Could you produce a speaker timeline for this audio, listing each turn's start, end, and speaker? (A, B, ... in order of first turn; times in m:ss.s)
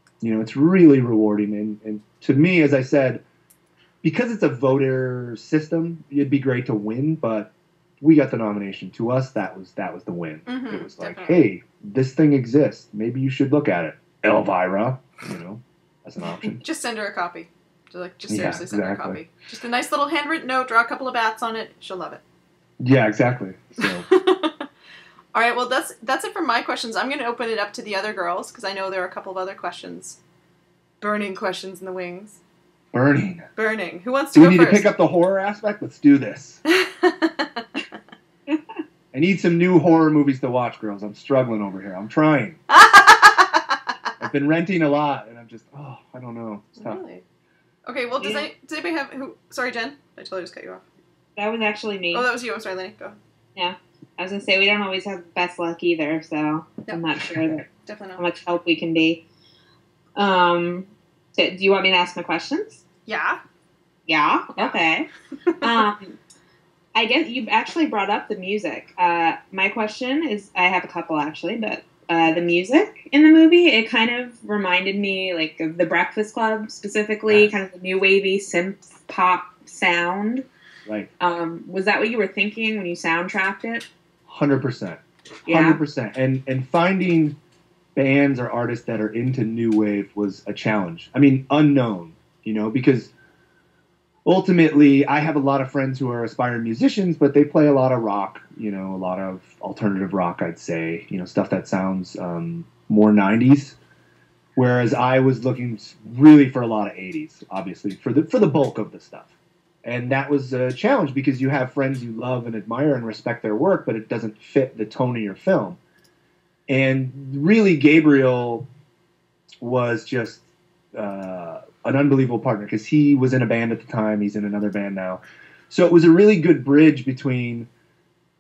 0:00.2-0:03.2 A
0:04.0-0:16.6 A
0:10.5-0:11.4 B
0:16.6-0:22.2 B
0:18.3-0:19.2 A
0:22.8-0:24.1 A
0:23.8-0:24.6 B
0:25.3-0:30.2 B
0:31.0-0:32.4 B
0:32.9-0:33.5 A
0:33.6-0:34.9 B
0:34.3-0:36.6 A
0:36.7-0:37.7 B
0:39.1-0:42.6 A
0:42.7-0:43.8 B
0:44.2-0:47.0 A
0:46.8-0:47.2 B
0:47.9-0:50.8 B
0:48.2-0:48.5 C
0:51.4-0:52.3 C
0:52.1-0:53.2 B
0:53.6-0:59.2 C
0:56.9-0:57.2 B
0:57.8-0:58.2 B
1:00.2-1:02.8 C
1:03.1-1:03.4 B
1:04.1-1:05.1 C
1:05.6-1:06.2 C
1:07.0-1:20.5 C
1:17.3-1:17.5 A
1:21.2-1:23.9 C
1:24.3-1:27.4 A
1:25.5-1:25.8 C
1:28.0-1:33.1 A
1:34.2-1:43.8 A
1:44.6-1:55.8 A
1:56.7-1:58.7 A
1:59.6-2:07.7 A